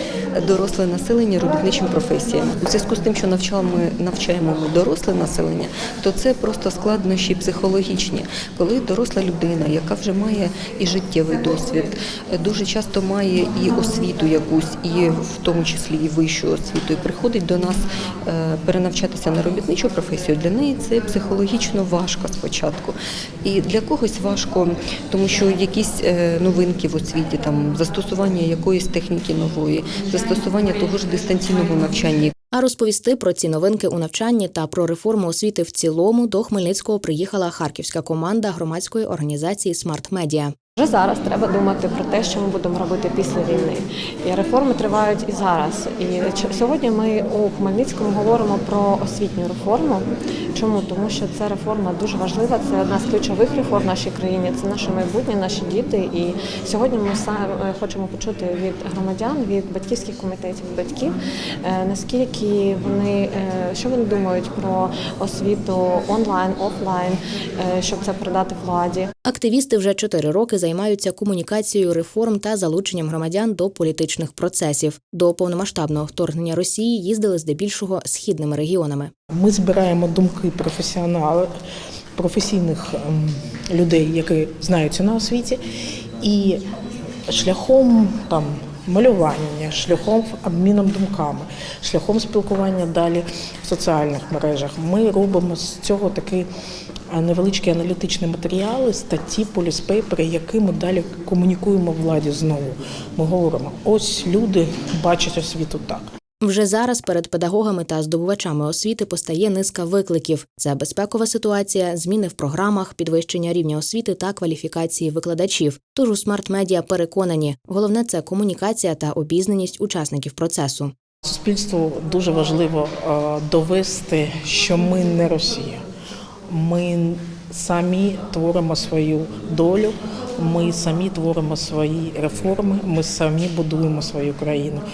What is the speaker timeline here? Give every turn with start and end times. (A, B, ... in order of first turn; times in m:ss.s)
0:00.4-0:32.3 A
0:32.5-0:40.6 B
0:40.8-0:50.0 C
0:50.6-1:09.1 C
1:09.2-1:19.1 B
1:19.4-1:21.5 D
1:22.2-1:25.6 D
1:26.2-1:26.6 D
1:27.3-1:36.5 D
1:37.1-1:46.0 D
1:46.4-2:00.9 B
2:01.2-2:05.8 D
2:06.5-2:14.8 D